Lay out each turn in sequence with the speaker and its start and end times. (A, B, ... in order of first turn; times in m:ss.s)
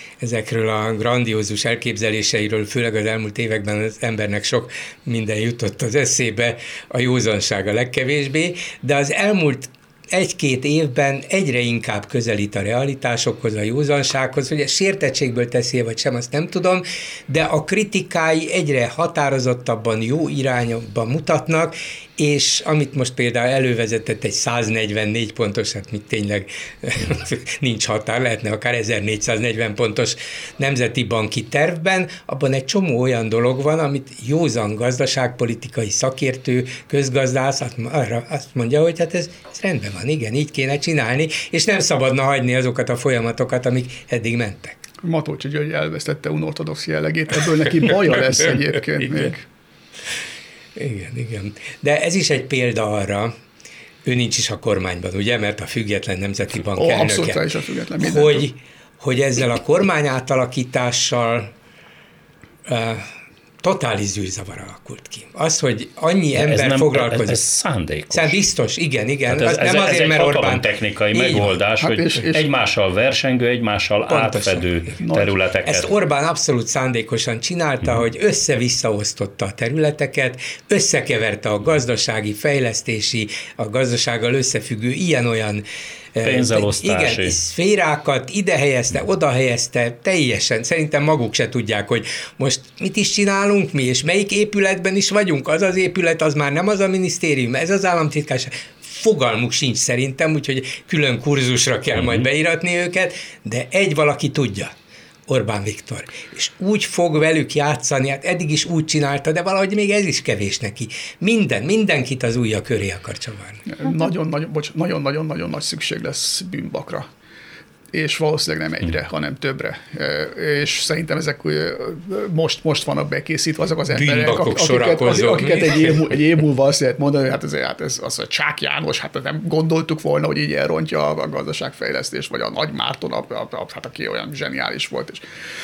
0:00.2-0:44.8 A
0:45.0-0:49.5 B
0:50.8-0:53.3 A
0:54.0-0:57.5 A
0:56.8-0:58.5 B
0:58.0-1:01.5 A
1:02.7-1:03.1 A
1:03.6-1:07.4 A
1:06.4-1:08.4 C
1:08.1-1:11.5 A
1:09.3-1:15.9 C
1:11.8-1:12.5 B
1:14.1-1:14.7 A
1:15.0-1:15.4 B
1:15.6-1:25.6 A
1:26.2-1:44.7 A
1:26.2-1:27.4 C
1:45.3-1:53.6 A
1:53.7-1:57.1 B
1:57.9-2:15.2 B
2:03.9-2:06.1 A